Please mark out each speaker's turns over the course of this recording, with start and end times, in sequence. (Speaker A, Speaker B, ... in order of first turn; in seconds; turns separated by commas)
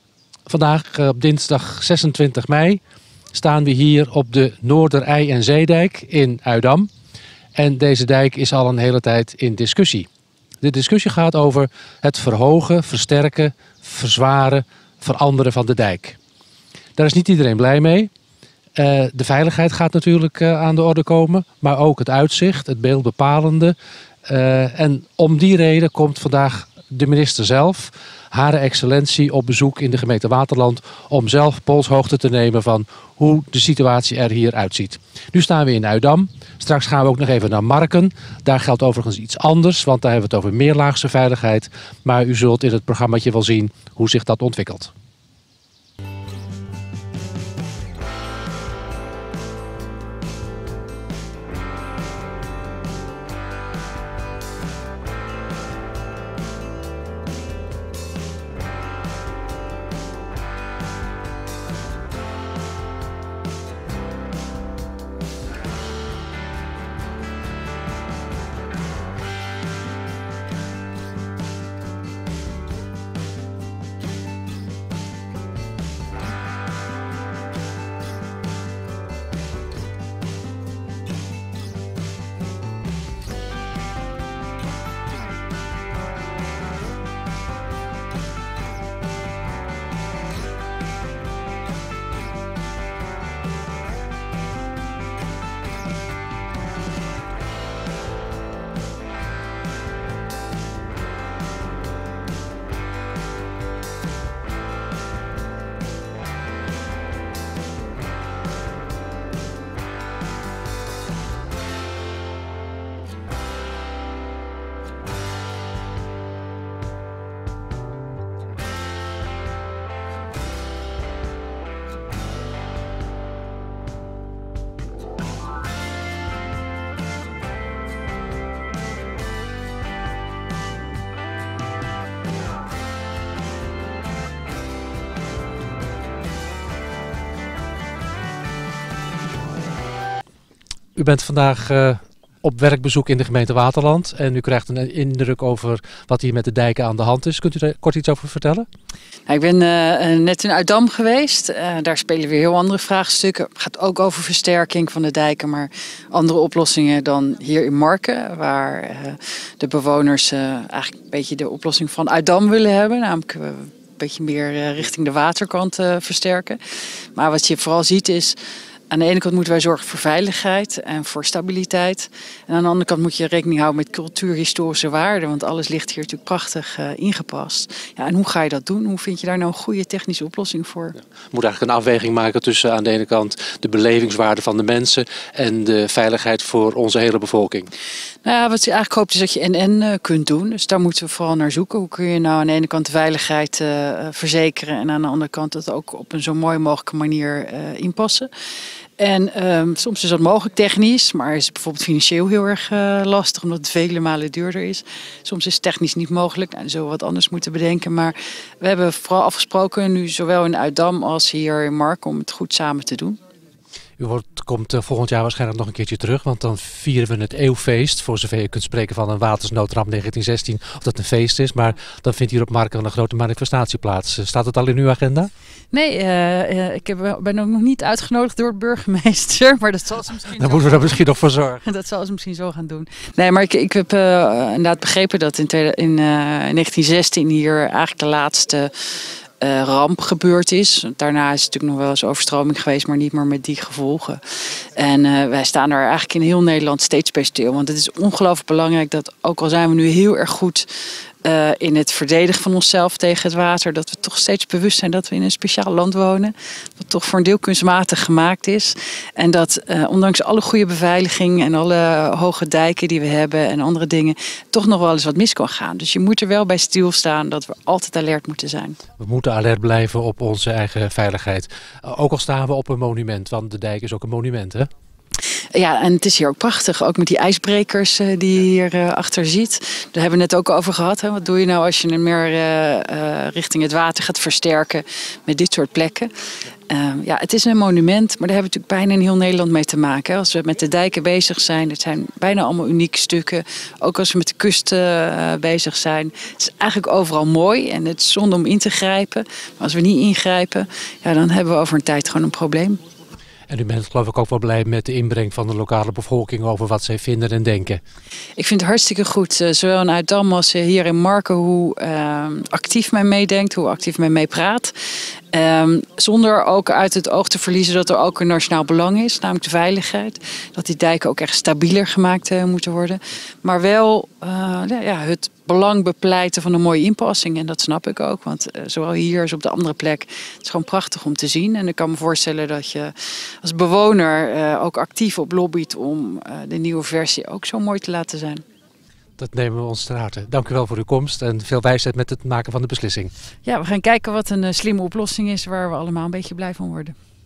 Speaker A: 0.5-2.8, Speaker A: 3.3-6.9, Speaker A: 7.5-10.1, Speaker A: 10.6-16.2, Speaker A: 17.0-18.1, Speaker A: 18.8-44.9, Speaker A: 140.9-148.7, Speaker B: 149.3-166.6, Speaker B: 167.1-168.4, Speaker B: 168.9-181.0, Speaker A: 181.3-187.7, Speaker B: 188.2-198.3, Speaker B: 199.0-213.2, Speaker A: 214.0-225.3, Speaker B: 225.7-230.8, Speaker A: 230.3-231.6, Speaker B: 231.6-238.8, Speaker B: 239.4-250.7, Speaker B: 251.2-268.8, Speaker A: 269.0-274.7, Speaker B: 275.5-286.1, Speaker B: 286.7-302.8, Speaker A: 303.5-307.8, Speaker B: 308.4-314.7, Speaker B: 315.3-338.4, Speaker A: 339.2-343.1, Speaker B: 343.4-346.9